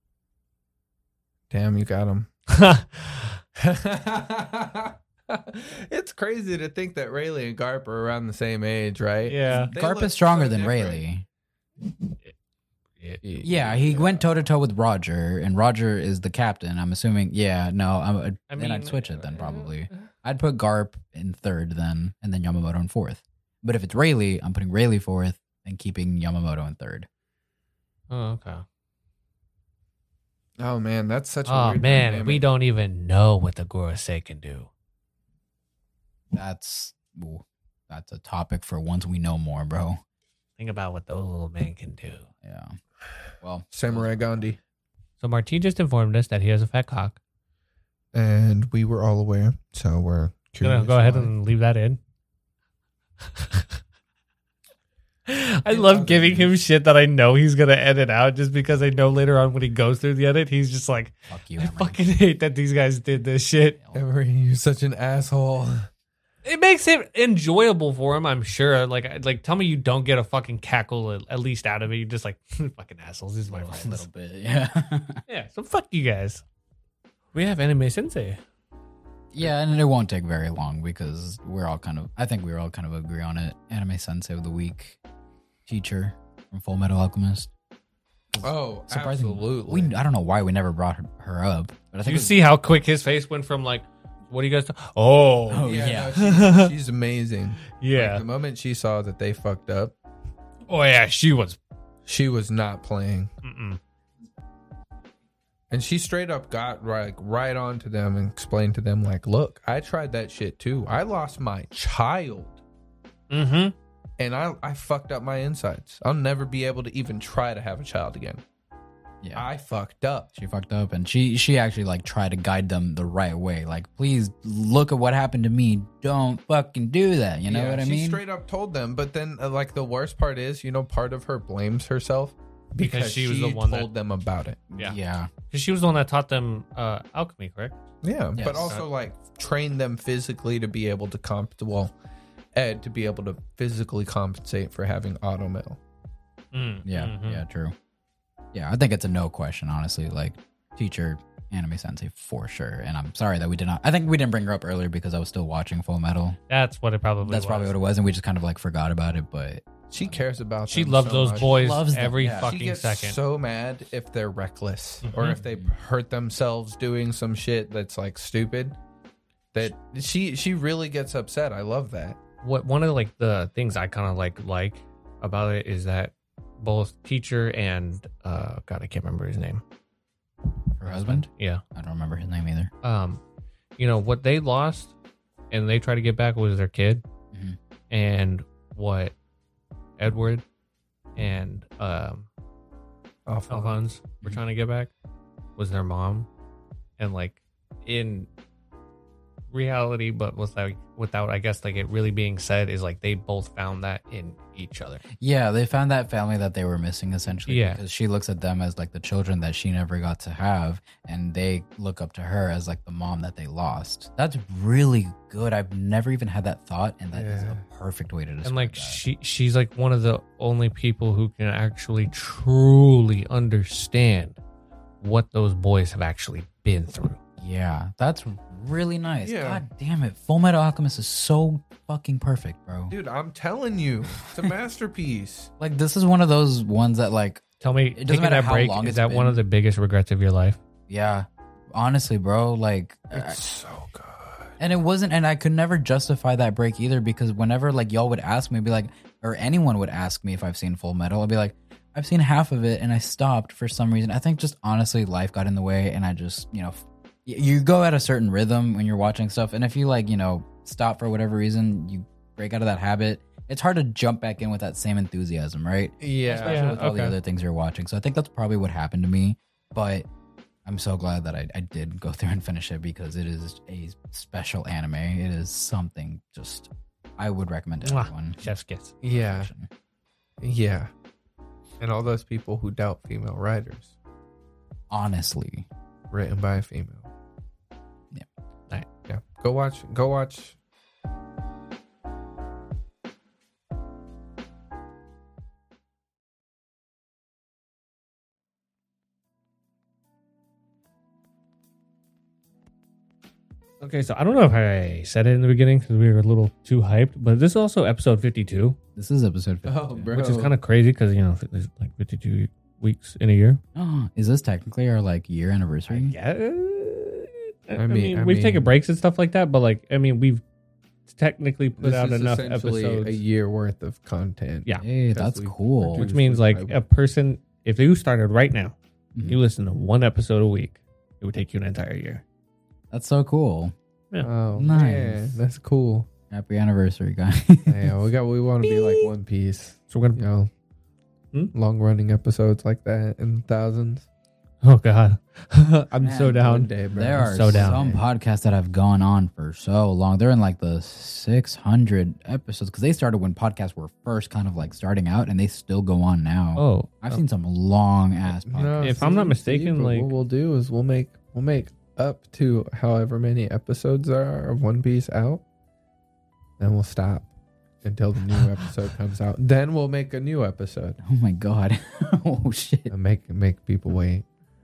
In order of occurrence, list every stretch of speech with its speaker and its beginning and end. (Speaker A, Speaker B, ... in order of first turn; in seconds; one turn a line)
Speaker A: 1.5-2.3
Speaker B: 2.5-3.4
Speaker A: 3.5-11.0
Speaker B: 9.2-9.7
Speaker C: 9.5-11.2
Speaker B: 13.0-13.4
Speaker C: 13.2-27.1
Speaker A: 13.4-14.2
Speaker B: 18.5-20.1
Speaker B: 28.1-28.6
Speaker A: 30.6-32.4
Speaker B: 31.4-34.7
Speaker C: 36.3-40.0
Speaker B: 40.6-42.3
Speaker C: 42.4-42.8
Speaker C: 43.4-44.5
Speaker A: 43.7-44.6
Speaker B: 45.2-47.2
Speaker A: 48.1-51.3
Speaker B: 50.6-52.0
Speaker B: 53.4-53.6
Speaker B: 55.3-63.8
Speaker A: 55.7-56.5
Speaker C: 61.3-62.0
Speaker C: 63.8-64.0
Speaker A: 63.9-65.9
Speaker B: 66.4-74.1
Speaker C: 73.5-75.2
Speaker B: 75.3-76.4
Speaker B: 77.3-78.4
Speaker C: 79.3-85.0
Speaker C: 85.7-87.5
Speaker C: 88.3-92.3
Speaker A: 88.4-89.9
Speaker B: 92.0-96.7
Speaker C: 95.5-96.2
Speaker A: 95.6-99.9
Speaker B: 97.8-98.2
Speaker B: 100.7-101.6
Speaker A: 102.1-103.3
Speaker B: 103.4-103.8
Speaker A: 105.7-112.6
Speaker B: 113.3-113.7
Speaker A: 114.2-118.4
Speaker C: 119.2-119.5
Speaker A: 119.3-120.3
Speaker C: 120.3-128.2
Speaker A: 127.5-134.7
Speaker B: 132.8-133.9
Speaker C: 134.7-135.3
Speaker B: 135.5-137.8
Speaker A: 138.0-141.9
Speaker C: 138.3-138.7
Speaker A: 142.5-145.8
Speaker B: 146.5-147.4
Speaker C: 146.8-147.7
Speaker C: 148.5-156.4
Speaker B: 156.5-157.7
Speaker C: 157.2-160.2
Speaker A: 159.9-161.6
Speaker B: 160.7-163.2
Speaker C: 161.4-162.5
Speaker A: 162.3-168.8
Speaker B: 165.0-165.4
Speaker C: 165.3-165.7
Speaker A: 169.5-172.2
Speaker B: 172.4-179.6
Speaker C: 180.8-182.7
Speaker B: 180.8-181.6
Speaker B: 182.8-183.2
Speaker B: 183.8-184.9
Speaker B: 185.5-187.0
Speaker C: 187.3-187.6
Speaker B: 187.9-189.1
Speaker B: 190.0-190.4
Speaker B: 191.2-192.3
Speaker A: 193.2-193.8
Speaker B: 193.5-194.9
Speaker B: 195.6-196.3
Speaker B: 197.0-198.3
Speaker B: 199.5-205.0
Speaker C: 205.2-219.0
Speaker B: 207.5-207.8
Speaker A: 217.1-217.6
Speaker B: 218.4-224.4
Speaker B: 225.0-227.2
Speaker C: 227.4-232.9
Speaker A: 229.2-229.6
Speaker A: 232.9-235.5
Speaker C: 235.6-239.4
Speaker B: 237.6-240.6
Speaker C: 240.9-243.4
Speaker A: 243.1-244.5
Speaker C: 244.6-270.1
Speaker A: 266.0-267.2
Speaker B: 266.4-266.9
Speaker C: 270.6-278.4
Speaker B: 277.8-278.9
Speaker A: 279.0-279.5
Speaker C: 279.0-279.7
Speaker A: 280.4-280.9
Speaker A: 281.8-283.9
Speaker C: 284.9-285.7
Speaker A: 286.1-287.1
Speaker A: 289.1-290.6
Speaker B: 303.8-308.8
Speaker C: 308.9-310.1
Speaker A: 309.6-310.5
Speaker B: 310.1-313.6
Speaker C: 313.7-316.1
Speaker B: 315.9-320.4
Speaker A: 317.8-318.7
Speaker B: 321.1-323.2
Speaker A: 321.8-326.8
Speaker C: 324.8-326.1
Speaker B: 326.0-332.2
Speaker C: 329.1-329.4
Speaker C: 332.9-333.7
Speaker A: 334.2-336.1
Speaker C: 334.5-335.4
Speaker C: 336.3-337.9
Speaker A: 337.6-340.5
Speaker B: 338.6-339.1
Speaker B: 339.9-340.2
Speaker A: 341.5-344.1
Speaker B: 344.6-346.7
Speaker C: 346.0-359.1
Speaker A: 346.2-348.0
Speaker B: 347.2-347.8
Speaker B: 356.6-357.2
Speaker A: 358.3-365.4
Speaker B: 358.8-360.1
Speaker A: 366.6-367.3
Speaker A: 367.8-371.0
Speaker C: 371.0-372.9
Speaker A: 372.9-374.2